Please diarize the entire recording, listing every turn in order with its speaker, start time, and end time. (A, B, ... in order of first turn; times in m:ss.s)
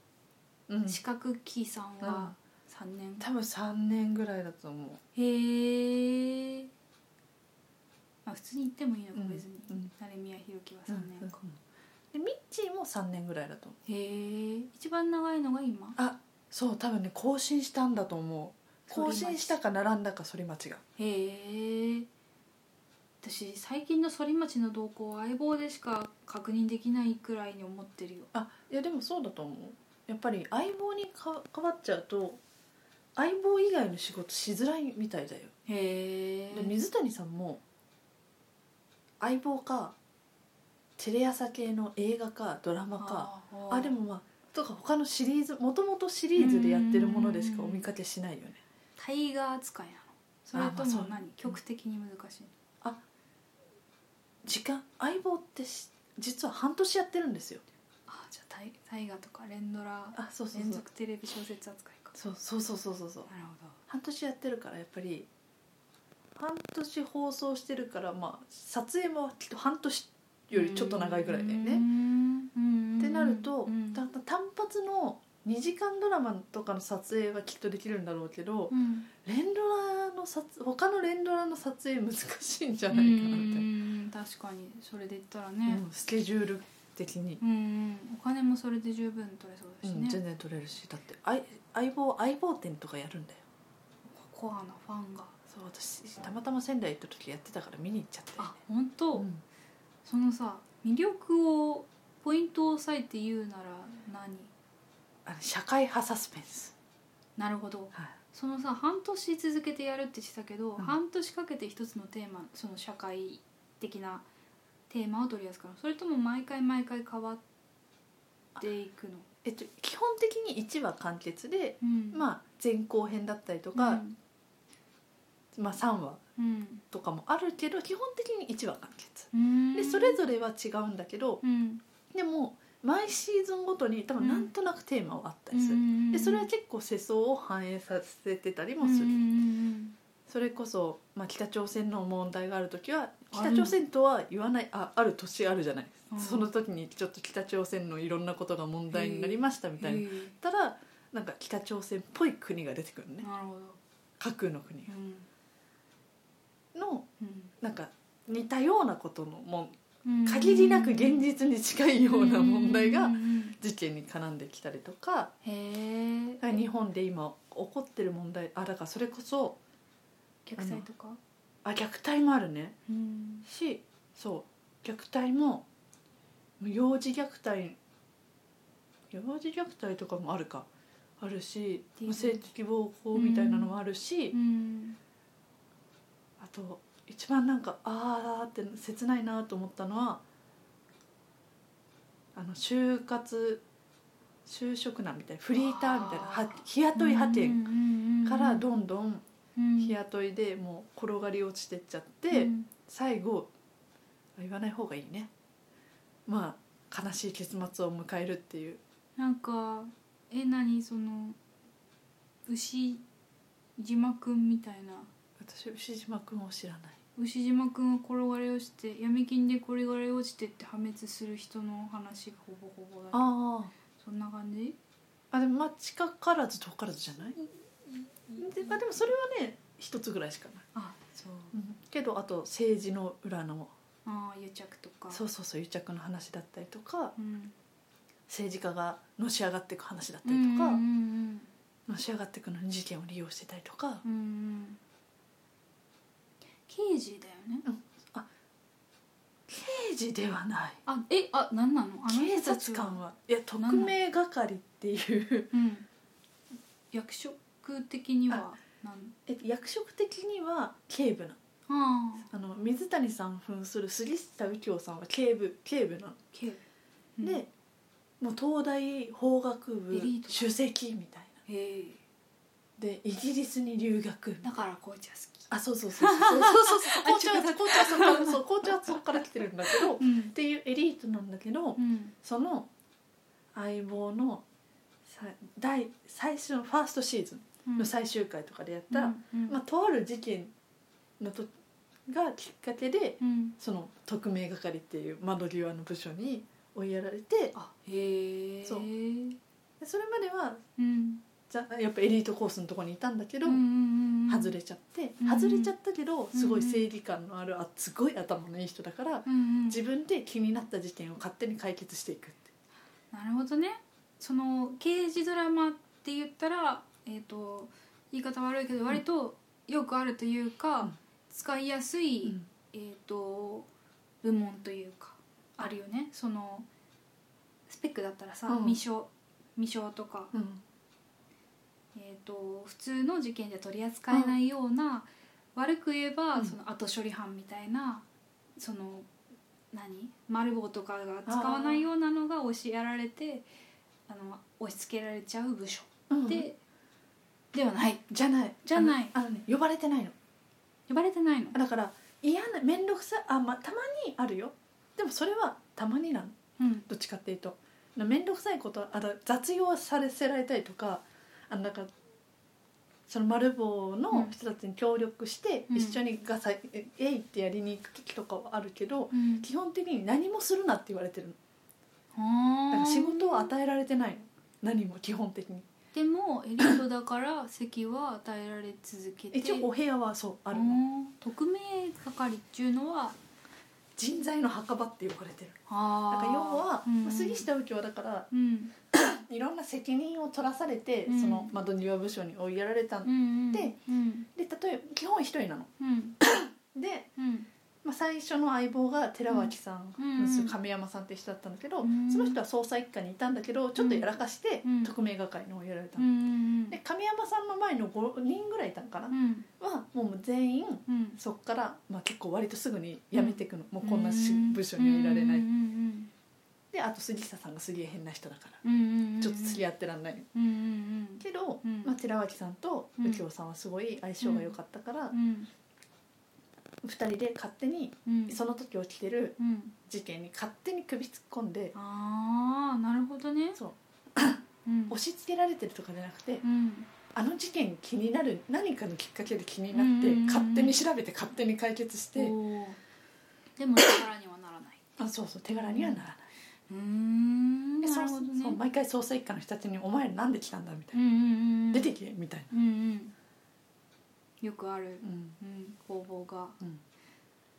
0:00.7-0:01.0 A
0:00.8-0:03.2 B
0:02.0-0:02.3 A
0:03.2-0:05.0 A
0:05.1-0:06.7 B
0:08.2-0:11.4 B
0:09.1-0:09.9 A
0:10.9-0:11.6 A
0:12.1-0:13.8 A
0:13.8-0:16.0 B
0:16.0-0:20.8 A
0:18.9-0:19.6 B
0:21.0-0:22.1 B
0:23.2-0:28.3 B
0:28.3-0:32.4 A
0:33.2-0:35.5 A
0:35.7-0:36.7 B
0:36.5-0:37.6 A
0:39.2-0:40.0 A
0:41.0-0:48.6 A
0:43.0-0:44.0 B
0:46.4-0:47.8 B
0:49.0-0:52.5 B
0:50.5-0:51.6 A
0:54.4-0:57.6 A
0:58.1-1:02.1 B
1:00.1-1:00.8 A
1:02.1-1:03.3 A
1:03.3-1:03.8 B
1:03.9-1:05.3 A
1:06.4-1:11.8 A
1:10.5-1:14.0 B
1:13.0-1:23.7 A
1:18.7-1:19.1 B
1:22.9-1:25.8 B
1:25.7-1:27.4 A
1:27.4-1:30.2 B
1:29.8-1:33.4 A
1:34.1-1:35.3 B
1:35.5-1:38.6 A
1:38.4-1:39.3 B
1:39.1-1:39.4 A
1:40.0-1:44.5 B
1:45.2-1:46.7 A
1:47.4-1:54.2 B
1:54.9-1:57.4 B
1:58.6-1:59.2 B
1:59.4-2:04.0 A
2:01.8-2:02.2 B
2:03.7-2:04.2 B
2:05.5-2:06.2 A
2:06.4-2:06.8 B
2:06.9-2:11.4 A
2:09.3-2:10.2 B
2:11.4-2:11.8 B
2:12.1-2:19.3 A
2:14.2-2:14.5 B
2:15.5-2:16.5 B
2:18.8-2:19.9 B
2:20.3-2:33.3 A
2:23.3-2:23.8 B
2:26.1-2:26.5 B
2:28.9-2:30.3 B
2:33.2-2:33.8 B
2:34.2-2:34.9 A
2:34.9-2:35.3 B
2:36.7-2:37.1 A
2:37.2-2:37.5 B
2:37.6-2:45.3 A
2:40.0-2:41.2 B
2:42.1-2:43.6 B
2:45.4-2:46.6 B
2:46.4-2:49.6 A
2:50.4-2:51.2 B
2:50.6-2:50.8 A
2:51.6-2:52.8 A
2:52.9-2:53.4 B
2:53.4-2:55.6 A
2:56.6-2:57.8 A
2:59.1-3:00.7 A
3:01.2-3:04.3 A
3:02.0-3:02.4 B
3:03.1-3:03.7 B
3:04.3-3:05.0 B
3:06.4-3:10.2 A
3:12.3-3:13.6 A
3:14.4-3:17.6 A
3:15.5-3:18.7 B
3:18.2-3:19.2 A
3:19.6-3:20.0 B
3:19.8-3:23.5 A
3:22.3-3:22.7 B
3:24.4-3:25.3 A
3:26.2-3:28.8 A
3:29.2-3:31.4 B
3:32.5-3:33.0 B
3:33.8-3:35.1 B
3:35.4-3:37.0 A
3:37.2-3:43.4 B
3:43.1-3:43.7 A
3:43.9-3:44.8 B
3:45.3-3:47.4 A
3:48.3-3:50.7 A
3:48.3-3:48.8 B
3:50.7-3:51.5 B
3:51.5-3:53.7 A
3:54.0-3:55.2 B
3:55.1-3:57.1 A
3:57.2-3:57.5 B
3:58.3-4:00.8 A
4:00.2-4:01.5 B
4:01.9-4:04.0 A
4:04.0-4:04.8 B
4:06.7-4:07.6 B
4:07.6-4:08.3 A
4:09.5-4:10.8 A
4:10.8-4:13.0 B
4:12.1-4:15.5 A
4:13.6-4:14.0 B
4:15.5-4:15.8 B
4:16.9-4:19.1 B
4:19.3-4:21.4 A
4:21.7-4:22.3 B
4:22.3-4:26.2 A
4:26.3-4:26.6 B
4:27.2-4:27.4 B
4:27.2-4:27.5 A
4:28.2-4:31.4 A
4:29.9-4:30.5 B
4:31.5-4:32.0 B
4:32.8-4:34.4 A
4:34.4-4:40.3 B
4:35.5-4:42.7 A
4:41.8-4:42.1 B
4:43.5-4:44.4 A
4:45.0-4:50.5 A
4:47.6-4:47.9 B
4:48.9-4:49.6 B
4:51.2-4:51.5 A
4:52.1-4:57.5 A
4:53.2-4:53.6 B
4:57.5-4:59.4 B
4:59.8-5:00.6 A
5:00.8-5:01.2 B
5:01.5-5:03.6 A
5:03.4-5:04.6 B
5:04.3-5:12.5 A
5:05.2-5:05.7 B
5:06.3-5:06.8 B
5:09.2-5:09.8 B
5:13.1-5:23.7 B
5:24.2-5:26.7 B
5:27.7-5:30.3 B
5:28.5-5:28.8 A
5:30.3-5:30.6 A
5:31.9-5:38.0 B
5:34.1-5:34.4 A
5:38.6-5:39.1 B
5:39.7-5:43.4 B
5:41.2-5:41.9 A
5:44.1-5:46.6 B
5:46.1-5:46.5 A
5:47.5-5:48.0 B
5:48.1-5:50.1 A
5:48.6-5:49.1 B
5:50.9-5:51.6 B
5:51.5-5:56.4 A
5:56.6-5:56.9 B
5:56.9-6:01.9 A
6:03.1-6:11.4 A
6:05.7-6:06.0 B
6:09.1-6:09.5 B
6:12.1-6:13.5 B
6:12.7-6:15.7 A
6:15.9-6:19.7 B
6:19.3-6:20.8 A
6:20.5-6:23.2 B
6:24.0-6:28.3 A
6:25.7-6:27.5 B
6:28.3-6:28.7 B
6:28.9-6:33.8 A
6:31.1-6:31.5 B
6:33.0-6:34.3 B
6:34.3-6:35.7 A
6:35.8-6:36.2 B
6:36.2-6:37.1 A
6:37.2-6:37.5 B
6:37.8-6:46.1 A
6:39.3-6:40.5 B
6:41.8-6:42.4 B
6:43.8-6:44.9 B
6:46.0-6:46.8 B
6:46.7-6:55.5 A
6:49.1-6:49.5 B
6:50.9-6:51.2 B
6:53.1-6:56.1 B
6:56.7-6:58.6 A
6:58.6-6:59.6 B
6:59.2-7:00.3 A
7:00.3-7:01.9 B
7:01.2-7:05.1 A
7:03.0-7:03.2 B
7:04.2-7:04.5 B
7:05.1-7:05.5 B
7:06.8-7:11.7 A
7:08.0-7:08.4 B
7:09.4-7:09.8 B
7:11.7-7:13.6 B
7:13.6-7:16.4 A
7:14.6-7:15.0 B
7:16.4-7:16.9 B
7:17.1-7:22.4 A
7:19.7-7:20.9 B
7:22.1-7:22.8 B
7:23.6-7:24.8 B
7:25.0-7:26.2 A
7:25.5-7:26.0 B
7:26.7-7:28.6 B
7:27.8-7:31.0 A
7:30.9-7:31.9 B
7:31.7-7:32.5 A
7:32.5-7:33.1 B
7:34.4-7:36.6 B
7:35.0-7:35.3 A